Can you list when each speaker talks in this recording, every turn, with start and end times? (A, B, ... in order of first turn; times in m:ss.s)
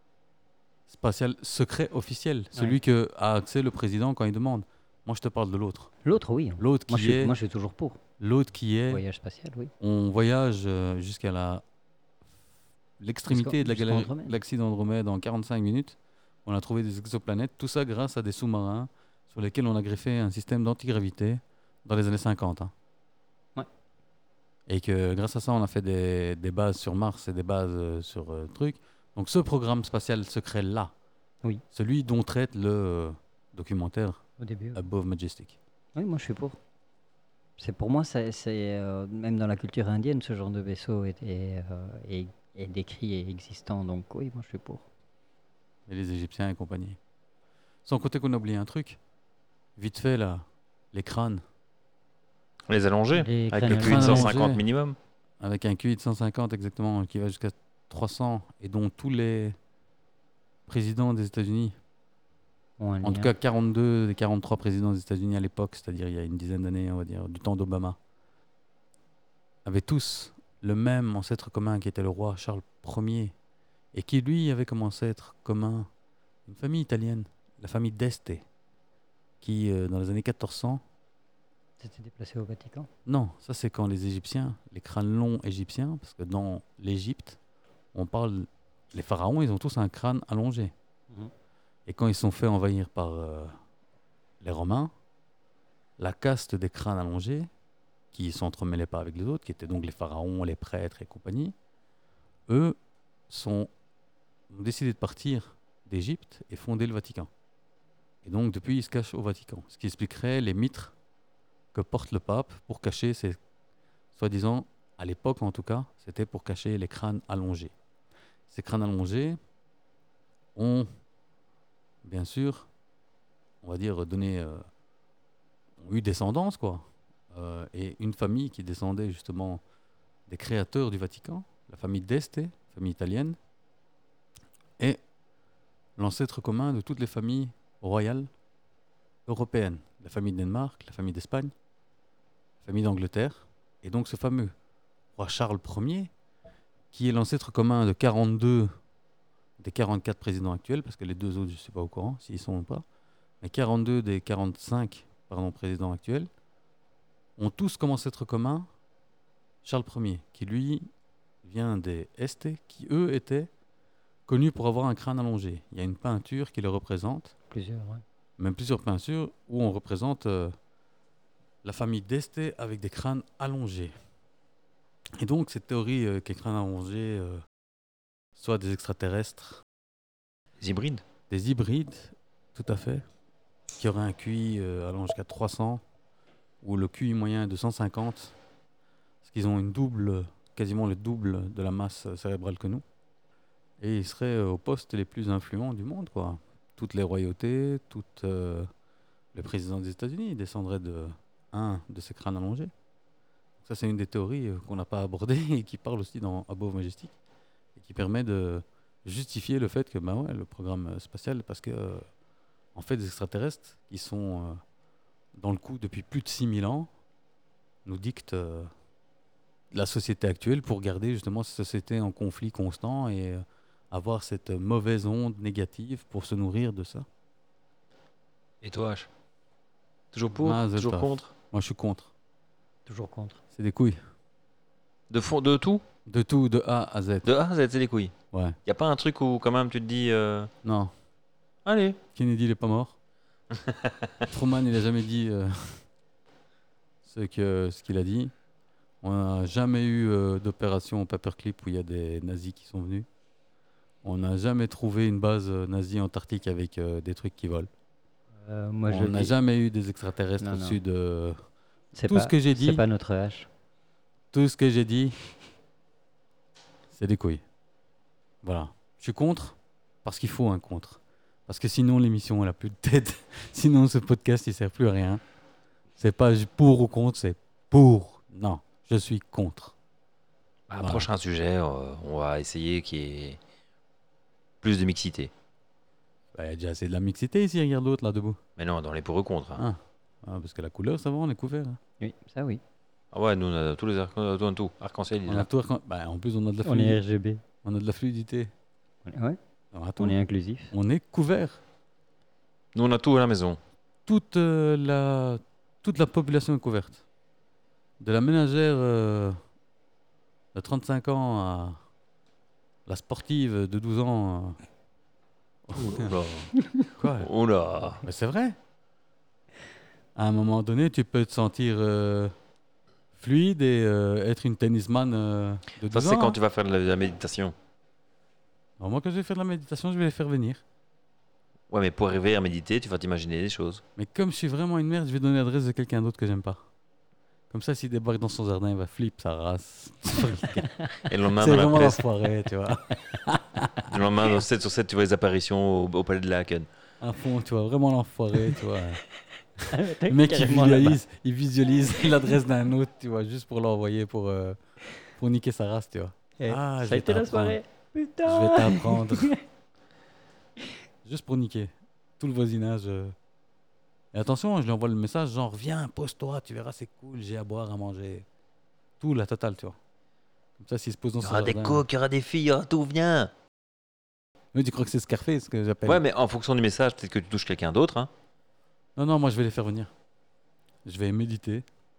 0:00.9-0:05.9 A
0:06.0-0:08.0 B
0:06.6-0:07.3 A
0:08.2-0:09.0 A
0:08.9-0:09.7 B
0:09.8-0:11.6 A
0:13.0-0:22.7 A
0:13.3-0:14.4 B
0:24.7-0:30.9 A
0:31.7-0:34.2 A
0:34.4-0:34.9 B
0:34.8-0:35.6 A
0:36.0-0:36.6 B
0:37.6-0:44.9 B
0:45.9-0:47.0 A
0:47.8-0:49.0 A
0:49.8-0:51.4 A
0:52.7-0:55.0 C
0:53.1-0:54.3 B
0:53.7-0:54.6 A
0:55.4-0:59.6 A
1:00.7-1:01.8 A
1:02.8-1:03.3 B
1:03.0-1:08.0 A
1:09.6-1:13.3 A
1:13.9-1:15.9 A
1:16.5-1:18.4 A
1:19.4-1:20.8 A
1:21.8-1:22.9 B
1:23.1-1:27.4 A
1:27.9-1:30.7 A
1:31.9-1:33.6 A
1:34.4-1:34.9 A
1:36.0-1:37.5 A
1:38.1-1:41.6 A
1:42.5-1:42.8 A
1:43.3-1:43.7 A
1:44.5-1:47.3 A
1:48.2-1:50.9 A
1:51.7-1:53.4 A
1:54.1-1:57.7 A
1:58.5-1:59.4 A
2:00.6-2:00.9 A
2:02.0-2:02.7 A
2:03.6-2:04.6 A
2:05.8-2:09.6 A
2:10.3-2:13.4 A
2:16.0-2:18.3 A
2:19.3-2:21.5 A
2:22.6-2:24.5 A
2:25.2-2:26.1 A
2:26.9-2:28.7 A
2:29.6-2:32.8 A
2:33.4-2:36.3 A
2:37.4-2:38.7 A
2:39.6-2:40.9 A
2:41.4-2:43.5 A
2:44.3-2:47.3 A
2:47.5-2:48.0 B
2:48.4-2:50.6 A
2:51.6-2:53.9 A
2:55.2-2:57.4 A
2:58.4-2:59.6 A
3:00.6-3:01.0 C
3:01.3-3:03.0 A
3:03.8-3:05.8 A
3:06.6-3:08.4 A
3:09.2-3:12.8 A
3:13.8-3:18.7 A
3:19.3-3:22.7 A
3:23.6-3:27.1 A
3:27.8-3:32.0 A
3:32.8-3:34.6 A
3:35.4-3:36.9 A
3:37.8-3:38.7 A
3:39.7-3:47.1 A
3:48.6-3:49.1 C
3:50.1-3:51.3 C
3:50.4-3:52.1 A
3:52.9-3:53.4 B
3:53.5-3:54.0 A
3:55.1-3:55.8 C
3:56.1-3:57.3 A
3:57.2-3:58.1 C
3:58.7-4:00.5 C
4:00.6-4:00.9 A
4:01.6-4:02.0 C
4:02.2-4:03.0 A
4:03.6-4:04.2 C
4:04.3-4:05.8 A
4:07.0-4:08.3 A
4:09.0-4:13.1 A
4:14.0-4:17.7 A
4:18.4-4:19.3 B
4:18.9-4:21.4 A
4:20.4-4:20.8 B
4:22.0-4:23.5 B
4:22.0-4:22.8 A
4:24.3-4:25.2 A
4:26.9-4:27.4 A
4:28.4-4:35.2 A
4:36.0-4:39.8 A
4:40.7-4:43.4 C
4:40.8-4:41.1 A
4:44.6-4:45.3 C
4:46.3-4:48.4 A
4:48.6-4:49.6 C
4:49.6-4:51.8 A
4:52.0-4:52.6 B
4:53.1-4:55.5 C
4:55.3-4:57.0 A
4:56.6-4:57.4 B
4:57.6-4:58.5 A
4:59.1-4:59.4 B
4:59.7-5:00.2 A
5:00.0-5:00.7 B
5:00.7-5:01.6 A
5:02.8-5:03.6 C
5:04.1-5:07.0 A
5:08.0-5:09.4 A
5:10.5-5:11.8 A
5:12.9-5:14.6 A
5:15.7-5:16.2 A
5:15.8-5:16.5 C
5:16.6-5:16.9 B
5:17.0-5:17.3 A
5:17.1-5:18.0 C
5:18.0-5:18.6 A
5:20.2-5:22.3 A
5:23.2-5:26.4 A
5:25.9-5:27.5 C
5:28.8-5:30.6 A
5:31.7-5:33.8 C
5:34.0-5:36.6 A
5:37.5-5:40.7 A
5:40.6-5:41.1 B
5:41.1-5:42.0 C
5:41.4-5:44.0 A
5:43.8-5:46.7 C
5:47.0-5:49.0 A
5:49.7-5:51.0 B
5:50.1-5:54.6 A
5:55.2-5:57.6 A
5:56.4-5:59.4 B
5:58.2-5:59.3 A
6:01.0-6:03.2 A
6:04.1-6:08.3 A
6:09.0-6:09.8 A
6:10.6-6:11.8 A
6:11.2-6:13.3 C
6:14.5-6:16.0 A
6:15.9-6:18.1 C
6:19.0-6:19.9 A
6:20.8-6:21.6 A